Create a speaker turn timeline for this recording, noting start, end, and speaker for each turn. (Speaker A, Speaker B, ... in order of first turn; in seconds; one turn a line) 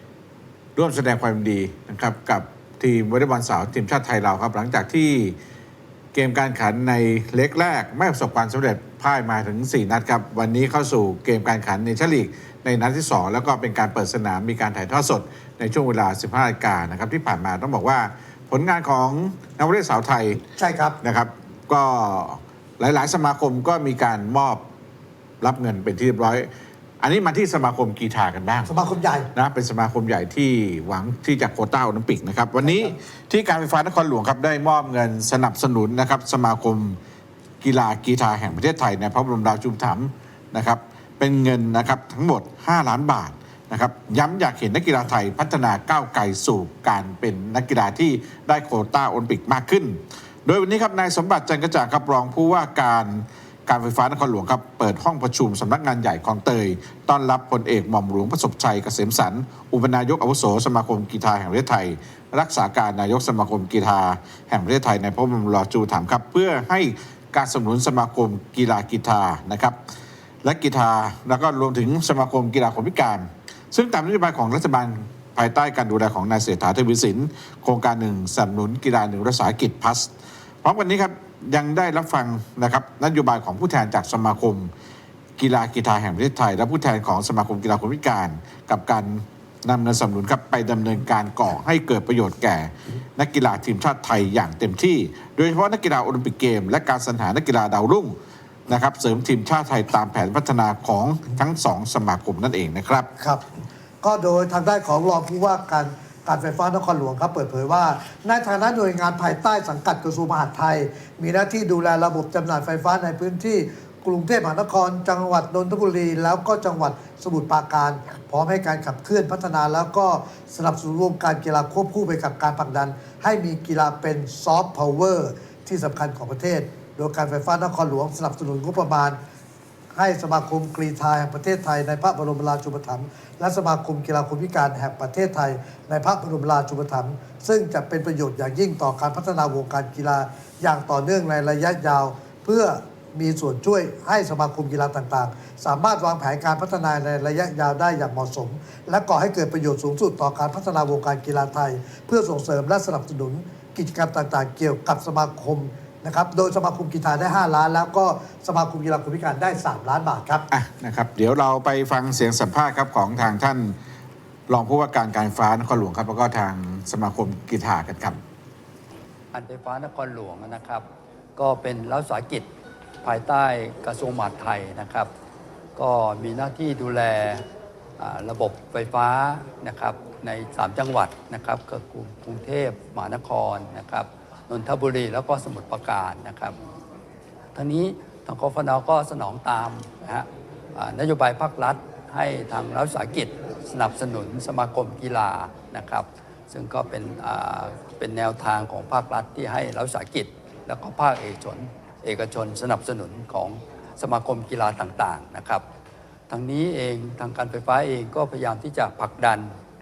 Speaker A: 0.8-5.4
Speaker A: 6.1-20.4
Speaker B: 20.6-21.0
Speaker A: 21.0-24.6
Speaker A: 25.4-26.5
Speaker A: 27.0-28.7
Speaker B: 28.7-29.3
Speaker A: 29.3-37.0
Speaker A: 37.6-69.8
Speaker A: 70.4-84.7
Speaker A: 85.4-98.2
Speaker A: 98.7-103.1
Speaker B: 103.2-103.4
Speaker B: 104.0-129.2
Speaker B: 129.9-160.5
Speaker A: 160.5-163.8
Speaker A: 164.5-168.2
Speaker C: 169.3-170.9
Speaker C: 171.4-172.5
Speaker C: 173.0-175.1
Speaker C: 175.8-177.4
Speaker C: 178.0-186.6
Speaker C: 187.6-205.7
Speaker C: 206.3-209.6